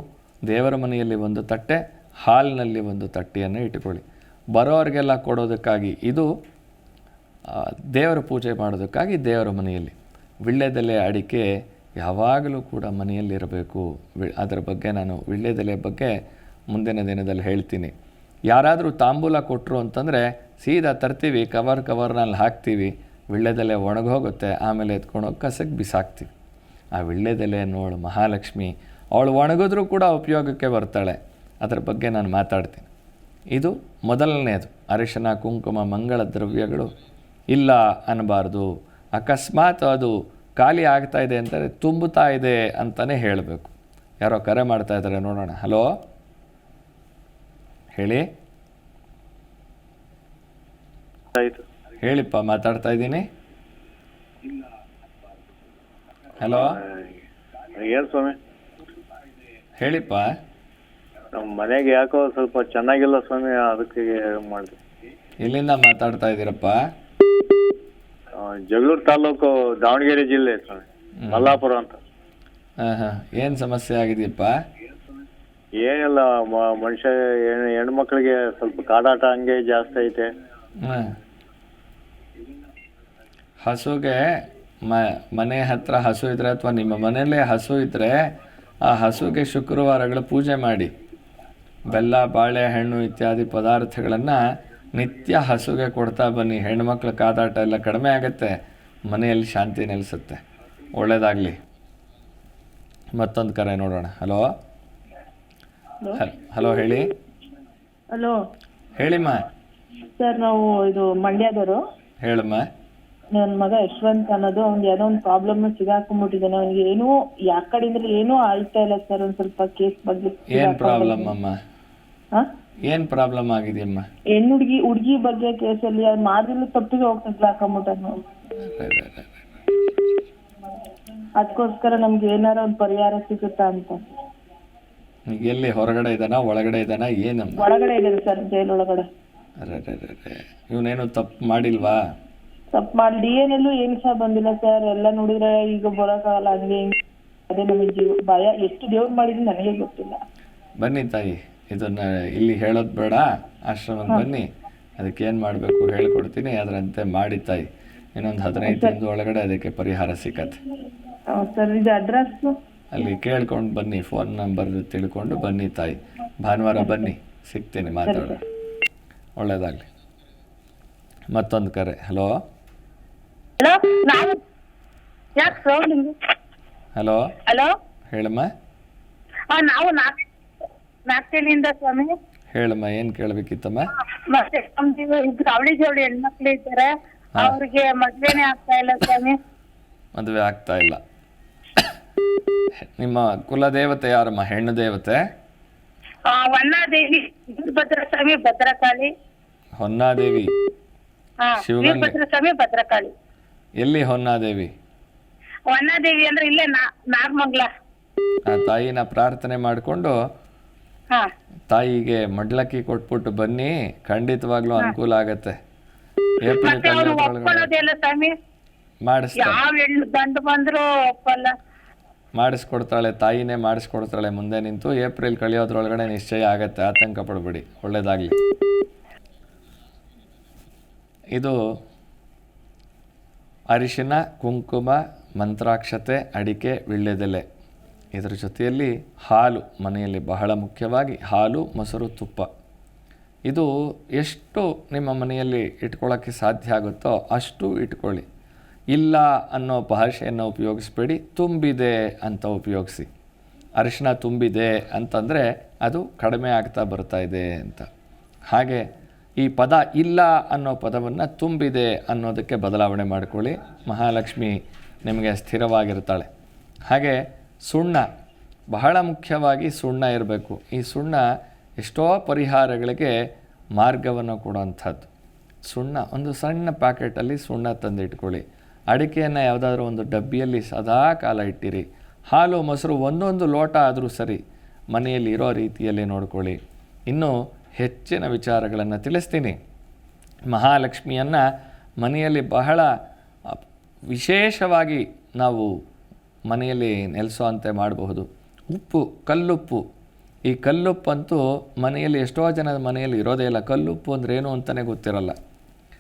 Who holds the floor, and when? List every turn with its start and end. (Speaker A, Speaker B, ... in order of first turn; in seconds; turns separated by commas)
Speaker A: 0.5-6.3, Speaker A: 7.5-11.5, Speaker A: 12.0-16.1, Speaker A: 16.7-17.9, Speaker A: 18.5-26.3, Speaker A: 26.9-32.9, Speaker A: 33.5-36.9, Speaker A: 37.5-45.9, Speaker A: 48.0-48.3, Speaker B: 51.3-51.6, Speaker A: 52.0-53.3, Speaker A: 56.4-56.8, Speaker B: 56.5-57.1, Speaker B: 57.8-58.4, Speaker A: 59.8-60.3, Speaker B: 61.3-64.8, Speaker A: 65.4-66.8, Speaker B: 68.4-72.0, Speaker A: 71.2-71.6, Speaker A: 72.8-74.5, Speaker B: 75.8-80.3, Speaker A: 80.8-81.2, Speaker A: 83.6-88.2, Speaker A: 88.8-90.9, Speaker A: 91.9-94.4, Speaker A: 94.9-98.6, Speaker A: 99.1-100.4, Speaker A: 100.9-101.6, Speaker A: 103.1-104.5, Speaker A: 106.1-107.1, Speaker A: 109.0-109.4, Speaker C: 110.2-111.8, Speaker A: 112.2-112.7, Speaker C: 113.4-121.3, Speaker A: 120.5-121.6, Speaker A: 122.9-124.0, Speaker C: 124.3-128.2, Speaker A: 128.6-129.3, Speaker C: 131.4-134.0, Speaker A: 135.3-137.7, Speaker C: 137.6-139.1, Speaker A: 139.6-142.0, Speaker C: 142.7-146.9, Speaker C: 147.5-150.2, Speaker A: 150.8-160.6, Speaker C: 158.6-159.0, Speaker C: 161.3-162.5, Speaker A: 162.9-168.4, Speaker C: 168.1-168.3, Speaker A: 169.4-169.8, Speaker A: 171.3-172.3, Speaker D: 173.6-174.4, Speaker D: 175.4-176.1, Speaker A: 177.0-177.3, Speaker A: 178.1-178.5, Speaker D: 179.5-180.2, Speaker D: 181.1-182.1, Speaker A: 182.5-183.9, Speaker D: 184.1-189.4, Speaker A: 190.2-191.0, Speaker A: 193.0-195.2, Speaker D: 196.3-199.1, Speaker A: 199.8-200.5, Speaker D: 201.4-203.1, Speaker A: 201.6-202.2, Speaker A: 203.8-204.7, Speaker D: 205.7-207.7, Speaker A: 208.5-210.2, Speaker A: 211.7-215.6, Speaker A: 216.4-217.7, Speaker D: 216.5-218.3, Speaker A: 219.1-219.6, Speaker D: 219.4-221.5, Speaker A: 222.4-228.4, Speaker A: 233.7-237.5, Speaker A: 238.1-242.5, Speaker A: 243.5-248.3, Speaker A: 248.9-253.1, Speaker A: 253.8-257.9, Speaker A: 258.5-258.9, Speaker A: 259.4-266.3, Speaker A: 266.9-268.1, Speaker A: 268.7-271.3, Speaker A: 271.8-273.1, Speaker A: 273.8-275.1, Speaker A: 275.7-284.4, Speaker A: 284.9-286.6, Speaker A: 287.1-289.6, Speaker A: 290.5-291.4, Speaker A: 292.0-292.9, Speaker A: 294.1-295.7, Speaker A: 296.5-299.8, Speaker A: 300.5-305.4